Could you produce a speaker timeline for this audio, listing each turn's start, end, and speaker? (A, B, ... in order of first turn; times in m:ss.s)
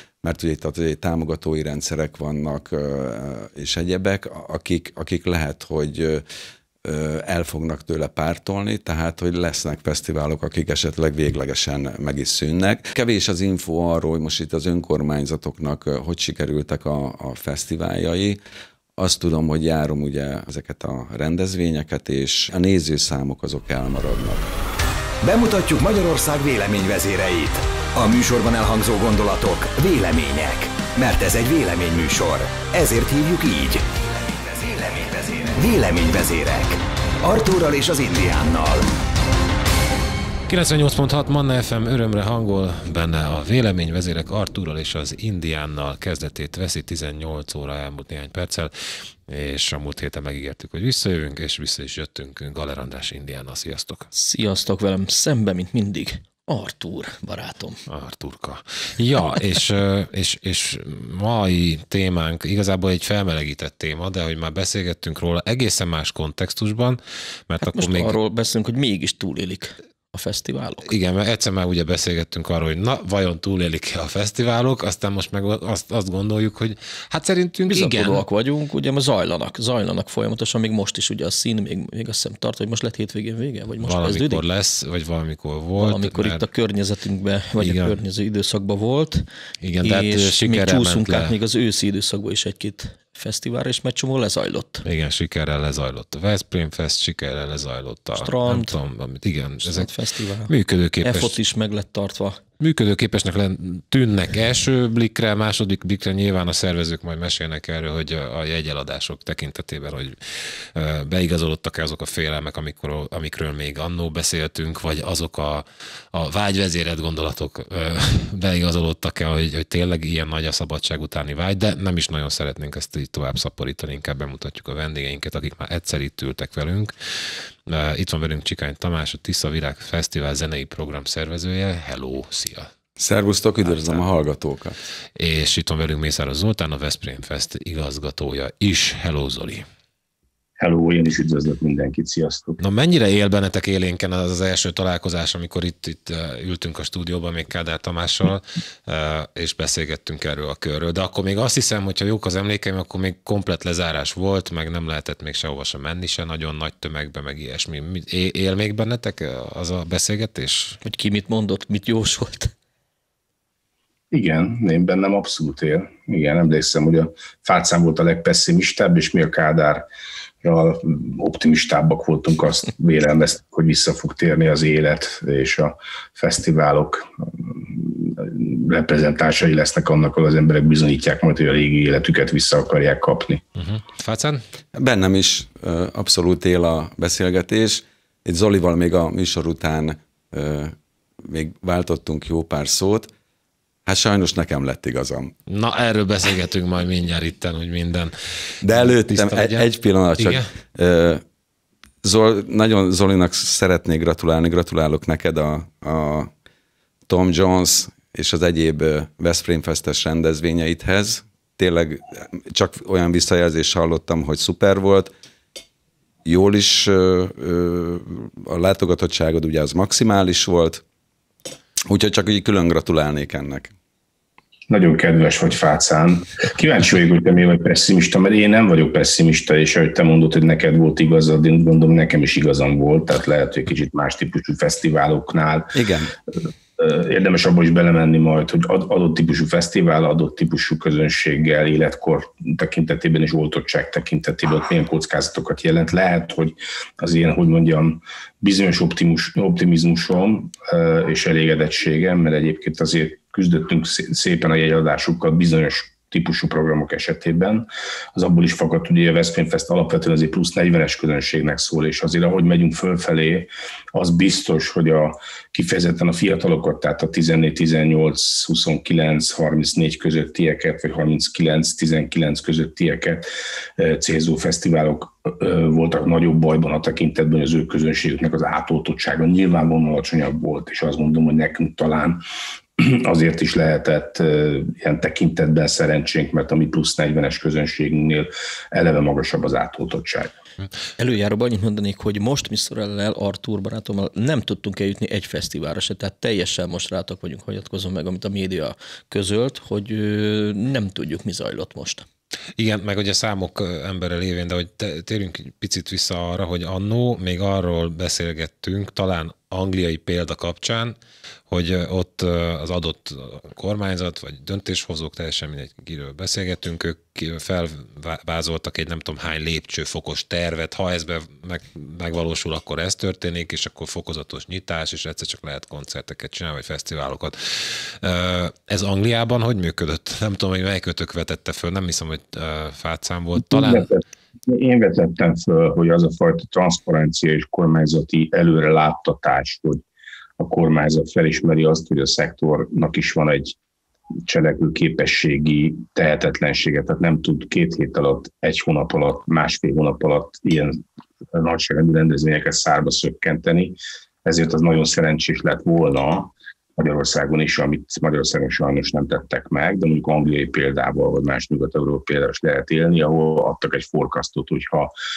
0:00.2-0:06.2 A
0:06.8-0:18.4 A
0:19.0-0:24.5 A
0:25.2-0:38.9 B
0:40.5-0:54.1 C
0:54.1-0:57.8 D
0:57.9-1:08.2 C
1:07.6-1:10.9 D
1:10.8-1:18.2 C
1:17.7-1:24.4 D
1:23.8-1:26.4 C
1:25.8-1:29.3 D
1:27.6-1:28.0 C
1:29.6-1:31.4 C
1:29.8-1:34.8 D
1:34.8-1:39.9 C
1:38.2-1:38.8 D
1:39.6-1:42.4 D
1:40.5-1:41.4 C
1:42.6-2:12.7 C
2:13.0-2:14.8 A
2:13.7-2:14.0 C
2:15.2-2:19.7 C
2:20.6-2:22.6 E
2:22.6-2:40.8 C
2:40.8-2:42.5 D
2:44.1-2:49.8 E
2:50.4-3:03.4 E
3:03.6-3:04.4 C
3:04.7-3:13.1 A
3:13.9-3:15.3 A
3:15.5-3:20.5 C
3:18.6-3:21.2 A
3:22.0-3:26.3 A
3:27.1-3:35.1 A
3:36.2-3:40.8 A
3:41.9-3:43.7 A
3:44.7-3:55.7 E
3:55.7-3:56.1 A
3:56.8-4:33.2 E
4:33.8-4:42.2 E
4:42.8-4:50.3 E
4:51.0-5:02.1 D
5:02.6-5:11.0 C
5:11.5-5:33.9 C
5:33.5-5:39.8 E
5:40.4-5:43.6 E
5:44.3-5:50.8 E
5:51.3-6:04.9 E